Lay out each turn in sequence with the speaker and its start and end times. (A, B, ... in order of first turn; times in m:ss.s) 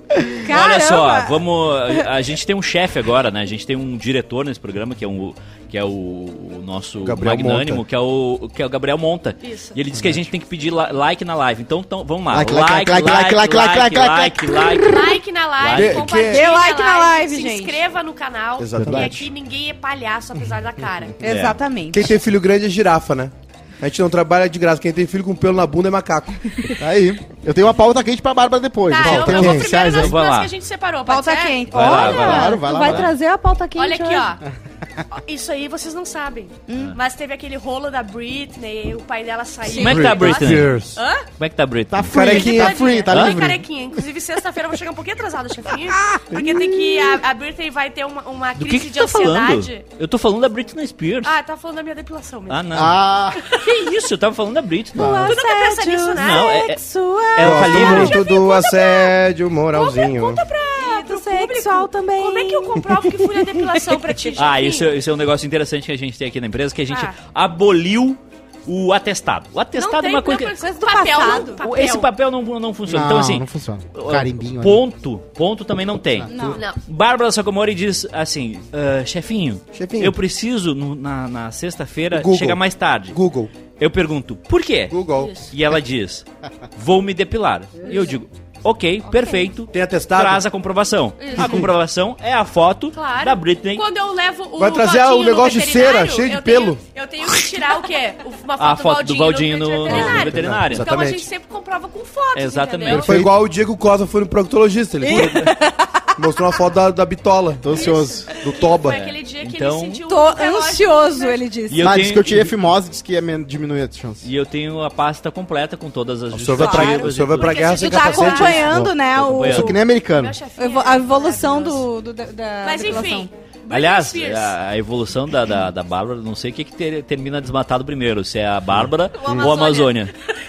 0:00.4-0:01.3 A
0:00.4-0:16.1 B
0:07.0-0:07.8 C
0:09.4-0:09.8 D
0:12.3-0:14.5 E
0:14.8-0:21.1 D
0:15.7-0:16.4 C
0:16.3-0:17.8 A
0:18.6-0:19.3 C
0:18.8-0:19.1 E
0:21.2-0:21.6 B
0:21.2-0:22.1 A
0:21.9-0:26.5 C
0:26.8-0:30.2 E
0:28.9-0:32.4 D
0:29.0-0:29.7 C
0:29.8-0:30.5 B
0:31.1-0:34.3 A
0:31.7-0:33.1 B
0:31.9-0:33.1 E
0:33.8-0:34.4 D
0:35.1-0:41.2 D
0:36.7-0:36.9 A
0:39.6-0:40.5 A
0:39.7-0:42.3 B
0:39.7-0:41.0 C
0:41.9-0:43.6 E
0:42.1-0:43.0 C
0:42.2-0:49.8 D
0:43.1-0:43.4 B
0:48.6-0:51.3 B
0:51.2-0:52.6 D
0:52.5-0:52.9 B
0:52.7-0:53.4 E
0:53.6-0:55.2 B
0:54.9-0:57.7 A
0:55.3-0:56.6 D
0:56.1-0:56.8 B
0:57.3-0:58.2 B
0:57.4-1:00.4 C
0:57.6-0:59.2 D
0:59.7-1:04.9 D
1:00.8-1:02.8 A
1:04.3-1:10.5 B
1:06.9-1:07.2 D
1:09.8-1:12.1 D
1:10.6-1:11.6 A
1:11.3-1:23.2 B
1:12.9-1:14.8 E
1:16.2-1:16.6 E
1:16.3-1:16.6 A
1:16.5-1:16.8 D
1:19.7-1:20.1 C
1:22.1-1:22.6 C
1:23.1-1:23.5 C
1:23.8-1:26.2 B
1:24.9-1:25.3 C
1:25.2-1:25.5 D
1:26.8-1:33.8 B
1:29.2-1:29.4 D
1:29.7-1:30.4 C
1:31.2-1:31.7 D
1:31.4-1:31.6 C
1:32.9-1:43.1 D
1:34.6-1:36.8 C
1:38.6-1:40.9 B
1:39.9-1:41.3 C
1:42.3-1:43.1 B
1:42.9-1:43.3 E
1:42.9-1:45.5 C
1:45.0-1:46.1 A
1:45.1-1:45.5 B
1:46.2-1:47.7 C
1:47.6-1:48.3 E
1:47.7-1:51.4 D
1:48.4-1:49.0 C
1:48.9-1:50.0 B
1:50.1-1:51.8 A
1:51.7-1:52.5 B
1:51.8-1:54.3 E
1:54.2-1:57.8 B
1:56.3-1:58.7 C
1:56.6-1:57.1 A
1:57.4-1:58.6 D
1:57.7-1:59.8 A
1:58.4-2:00.4 E
1:59.2-1:59.8 B
2:00.0-2:01.9 D
2:00.6-2:03.3 A
2:02.6-2:04.5 D
2:03.7-2:10.1 B
2:09.2-2:10.1 D